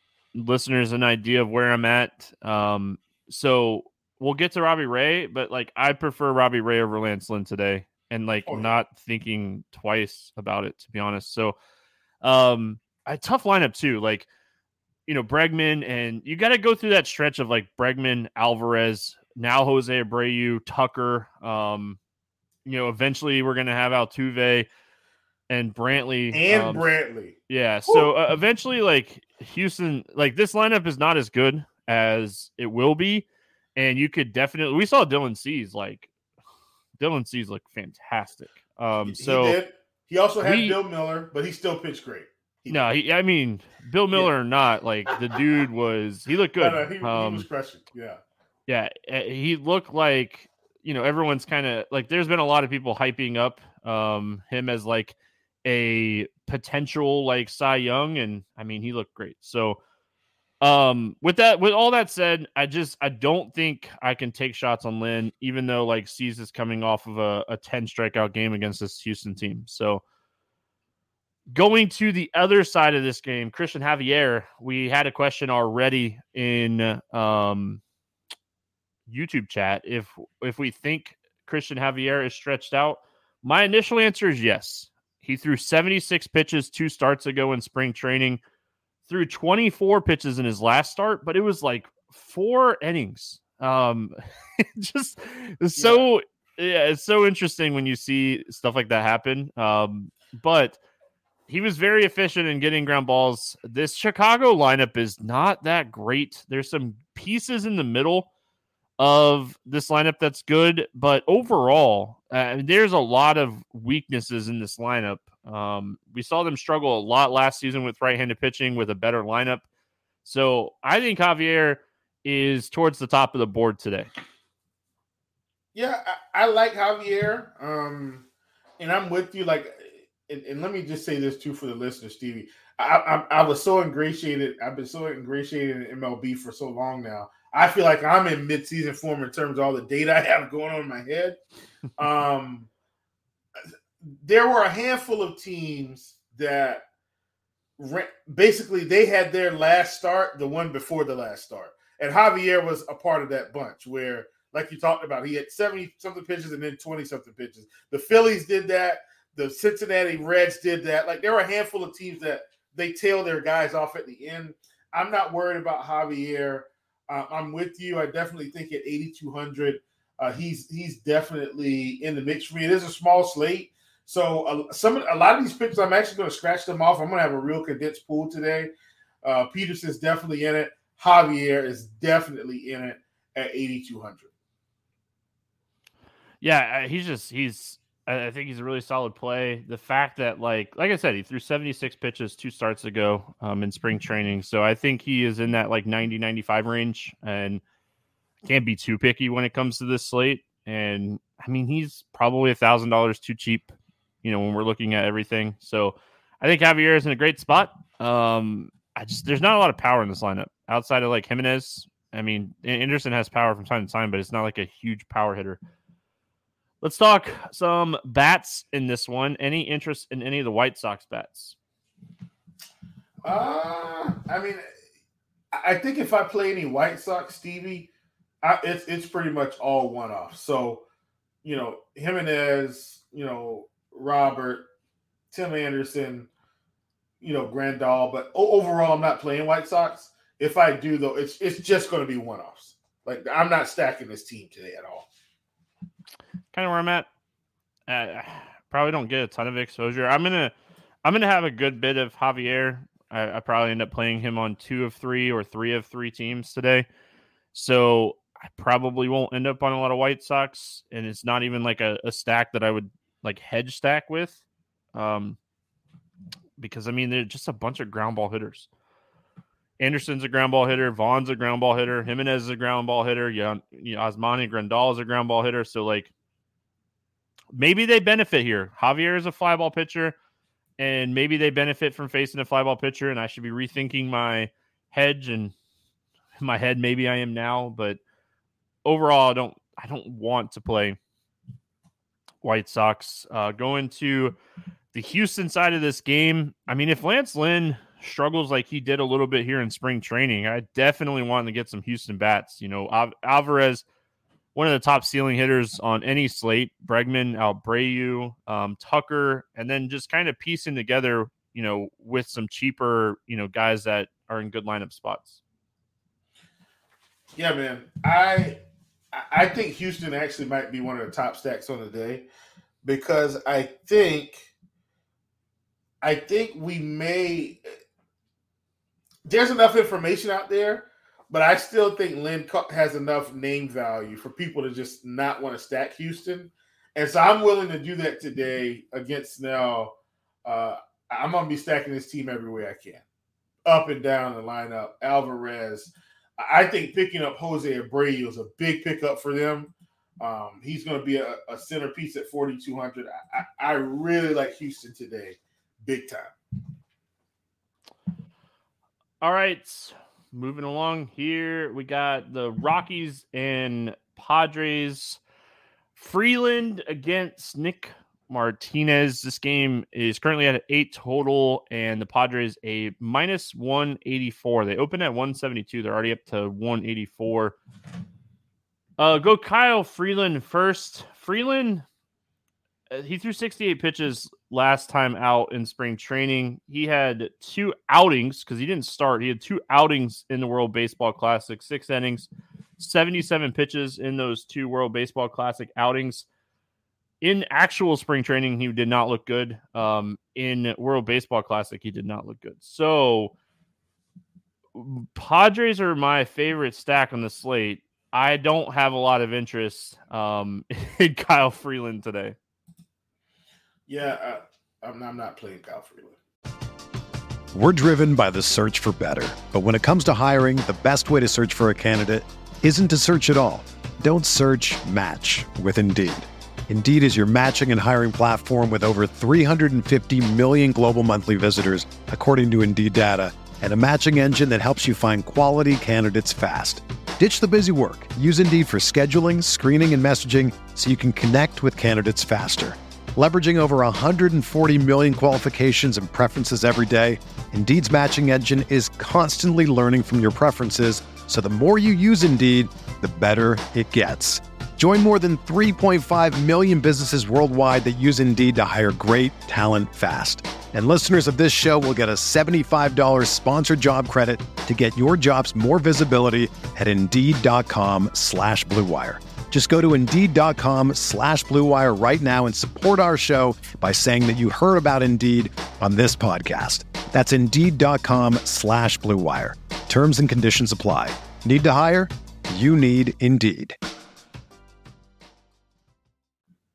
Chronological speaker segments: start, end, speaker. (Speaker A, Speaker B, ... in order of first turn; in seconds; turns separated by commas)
Speaker A: 0.3-11.6, Speaker B: 8.5-8.8, Speaker A: 12.2-14.3, Speaker A: 15.1-22.0, Speaker A: 22.6-24.7, Speaker A: 25.5-26.9, Speaker B: 26.3-28.1, Speaker A: 27.5-36.1, Speaker A: 37.0-39.6, Speaker B: 39.1-42.8, Speaker A: 40.4-40.8, Speaker A: 42.7-47.5, Speaker B: 46.6-48.2, Speaker A: 48.7-59.8, Speaker A: 60.6-70.0, Speaker A: 71.5-77.8, Speaker A: 79.1-88.4, Speaker A: 89.1-100.8, Speaker B: 95.8-96.1, Speaker A: 101.5-108.3, Speaker A: 109.0-119.7, Speaker A: 120.2-124.1, Speaker B: 125.8-128.3, Speaker B: 128.8-141.4, Speaker B: 142.0-142.7, Speaker B: 144.0-146.8, Speaker B: 147.8-178.7, Speaker B: 179.2-184.3, Speaker A: 186.4-197.6, Speaker A: 198.4-215.6, Speaker A: 216.8-221.6, Speaker B: 223.2-224.6, Speaker B: 225.5-227.9, Speaker B: 228.4-230.8, Speaker B: 231.4-234.7, Speaker B: 235.3-236.3, Speaker B: 237.2-245.1, Speaker A: 246.5-247.1, Speaker A: 247.9-256.9, Speaker A: 257.5-264.4, Speaker A: 264.9-265.4, Speaker A: 266.6-268.7, Speaker A: 269.8-276.1, Speaker A: 277.6-280.2, Speaker A: 280.8-285.5, Speaker A: 286.4-288.0, Speaker A: 288.9-291.0, Speaker A: 292.4-294.4, Speaker A: 294.9-303.8, Speaker A: 304.6-315.4, Speaker B: 317.4-318.6, Speaker B: 319.1-322.3, Speaker B: 322.8-324.5, Speaker B: 326.0-327.7, Speaker B: 329.3-339.9, Speaker B: 340.4-343.0, Speaker B: 343.6-356.3, Speaker A: 359.2-365.2, Speaker A: 366.0-377.6, Speaker A: 379.0-381.9, Speaker A: 382.9-396.3, Speaker A: 397.2-403.3, Speaker A: 404.8-412.4, Speaker B: 413.9-416.2, Speaker C: 417.5-483.8